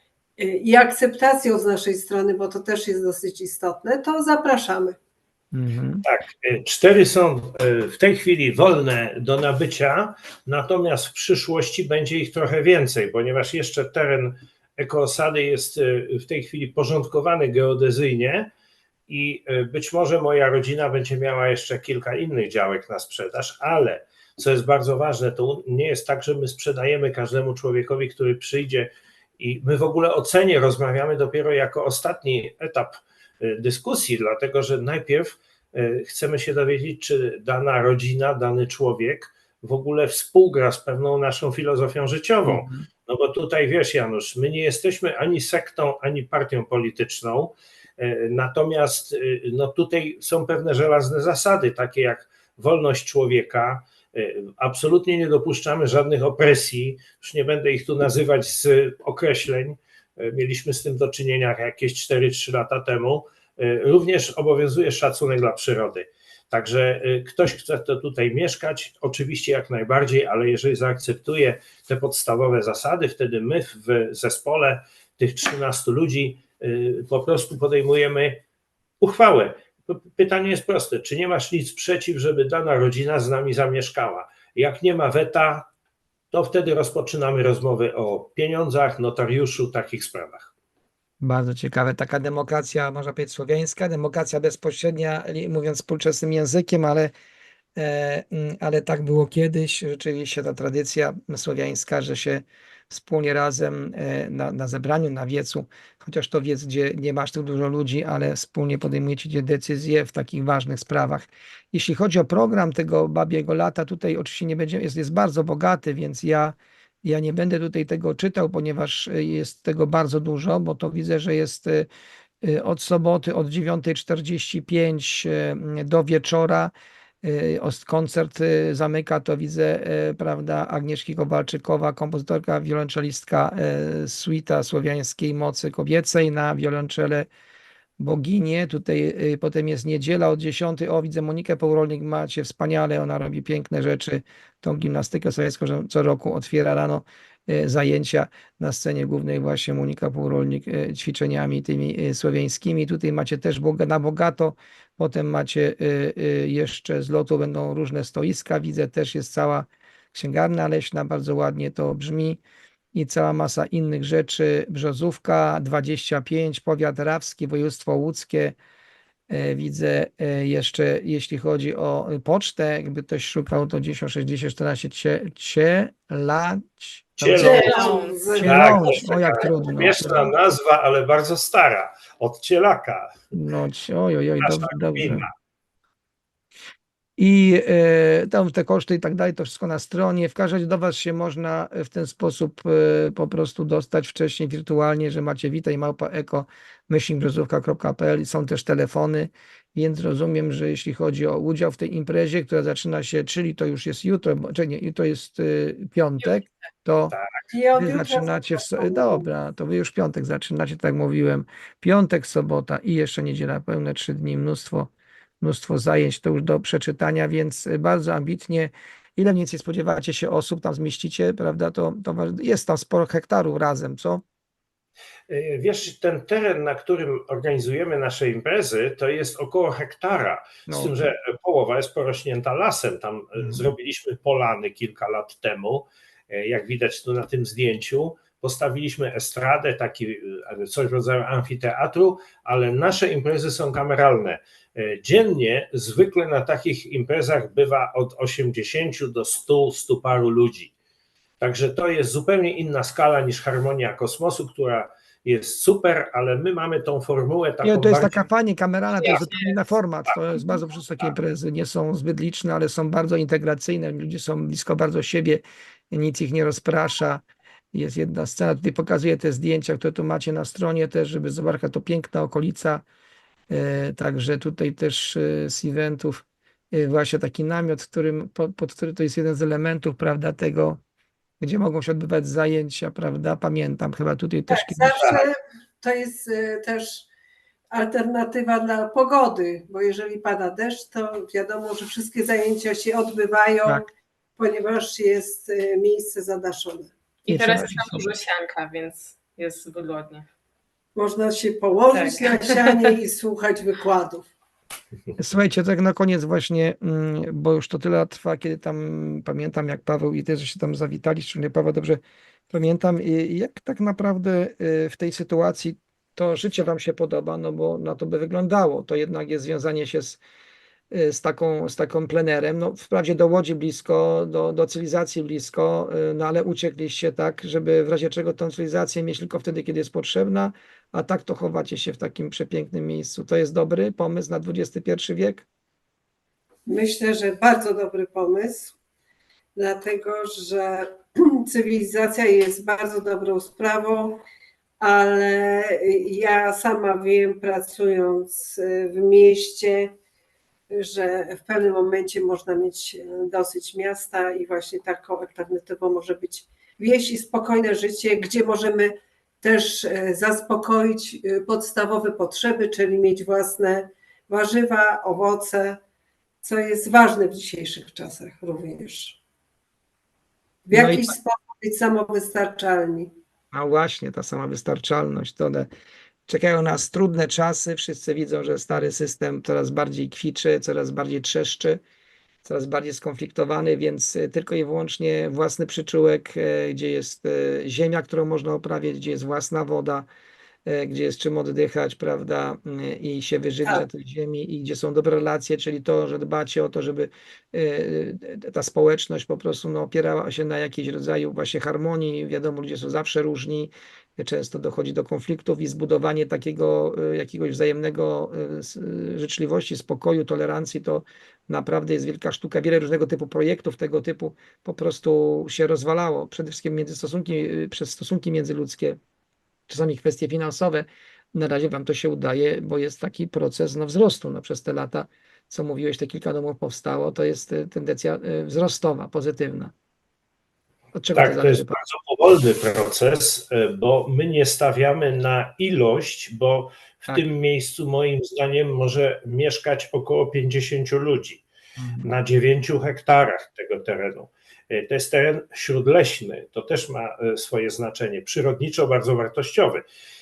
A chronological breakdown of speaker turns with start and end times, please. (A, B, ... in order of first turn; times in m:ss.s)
0:00.4-0:04.9 A
0:05.5-0:06.0 B
0:06.0-0:18.5 C
0:19.1-1:18.4 C
0:42.4-0:42.9 B
1:19.0-1:25.7 C
1:26.3-1:30.5 C
1:31.2-1:37.1 B
1:37.8-2:01.9 B
2:02.4-2:06.7 B
2:07.2-2:17.3 B
2:18.0-2:42.4 B
2:42.9-2:48.6 B
2:49.3-2:57.7 B
2:57.2-3:03.2 C
2:57.4-2:59.1 A
2:57.5-2:58.3 D
2:58.4-3:00.3 B
3:03.3-3:05.2 B
3:04.4-3:05.3 C
3:07.2-3:27.1 B
3:27.1-3:27.4 C
3:27.5-3:29.3 A
3:27.7-3:34.9 B
3:35.4-3:44.2 B
3:45.3-4:10.7 C
3:50.7-3:51.1 B
4:11.4-4:18.2 C
4:17.6-4:32.8 B
4:18.9-4:19.6 D
4:20.1-4:20.3 C
4:33.5-4:40.8 B
4:41.4-4:45.2 B
4:44.5-4:47.1 A
4:47.7-4:53.8 A
4:54.4-4:56.9 A
4:57.2-5:00.2 D
4:57.3-4:58.1 B
5:01.0-5:04.2 A
5:01.9-5:02.9 D
5:05.2-5:12.0 B
5:12.5-5:20.2 B
5:20.9-5:35.4 B
5:36.7-5:38.7 A
5:39.6-5:44.2 A
5:44.8-5:49.9 A
5:50.7-6:05.8 A
6:06.4-6:09.2 A
6:10.7-6:13.1 A
6:10.7-6:11.1 B
6:13.5-6:15.7 B
6:16.3-6:21.8 B
6:22.4-6:30.1 B
6:30.6-6:59.0 B
6:59.7-7:09.7 B
7:10.9-7:11.8 B
7:11.1-7:21.4 C
7:21.8-7:22.1 B
7:22.0-7:29.8 C